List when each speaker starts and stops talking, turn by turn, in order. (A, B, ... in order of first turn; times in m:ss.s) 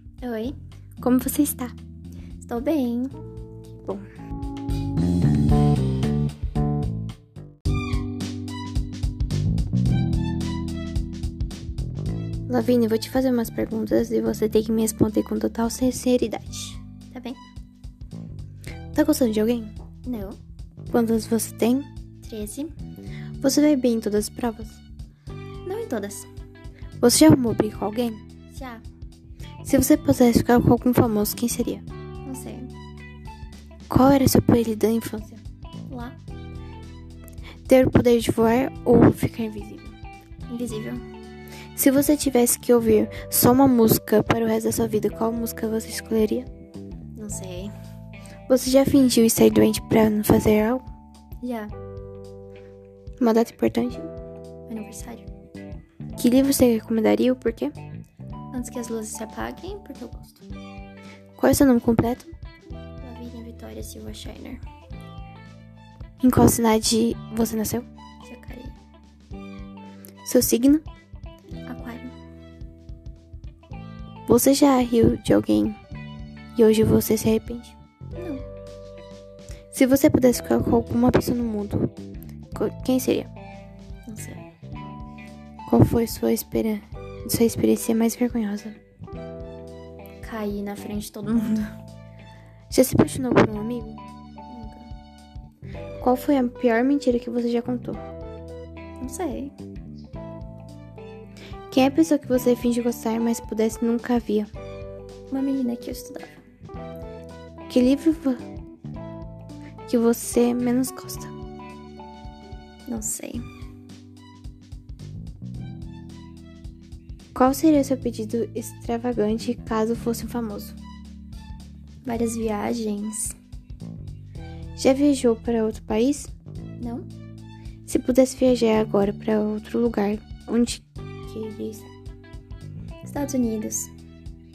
0:00.2-0:00.5 A
0:01.0-0:01.7 B
0:02.4-0:03.1 A
0:12.5-0:16.8 B
0:17.1-0:17.4 A
0:18.9-0:19.7 B
0:20.0-0:20.4 A
0:20.9-0:21.9 B
0:22.2-0:22.7 A
0:23.4-0:24.8 B
0:25.6-0:26.3 A
0:27.0-0:28.2 B
0:28.5-0:28.8 A
0:29.6-0:31.8 B
0:32.2-0:32.7 A
0:33.9-0:35.4 B
0:35.9-0:36.2 A
0:37.7-0:39.9 B
0:40.5-0:41.0 A
0:41.7-0:46.5 B
0:47.2-0:47.7 A
0:48.5-0:50.8 B
0:51.4-0:51.7 A
0:53.2-0:54.1 B
0:54.7-0:55.3 A
0:56.2-0:57.7 B
0:58.5-1:00.4 A
1:01.4-1:02.3 B
1:03.0-1:04.6 A
1:06.2-1:07.8 B
1:08.2-1:08.7 A
1:10.2-1:10.8 B
1:11.6-1:12.1 A
1:14.2-1:15.8 B
1:16.5-1:17.7 B
1:18.2-1:18.4 A
1:19.7-1:21.9 B
1:22.5-1:23.3 B
1:24.1-1:24.4 A
1:25.6-1:28.8 B
1:30.2-1:31.8 A
1:32.7-1:34.0 B
1:34.5-1:34.9 A
1:36.0-1:38.0 B
1:39.0-1:39.5 A
1:41.7-1:44.5 B
1:45.3-1:46.4 A
1:47.7-1:48.4 B
1:49.9-1:51.3 B
1:52.8-1:53.4 A
1:57.3-2:00.8 B
2:02.0-2:03.4 A
2:04.8-2:06.3 B
2:06.8-2:07.1 A
2:07.9-2:11.9 B
2:13.0-2:13.9 A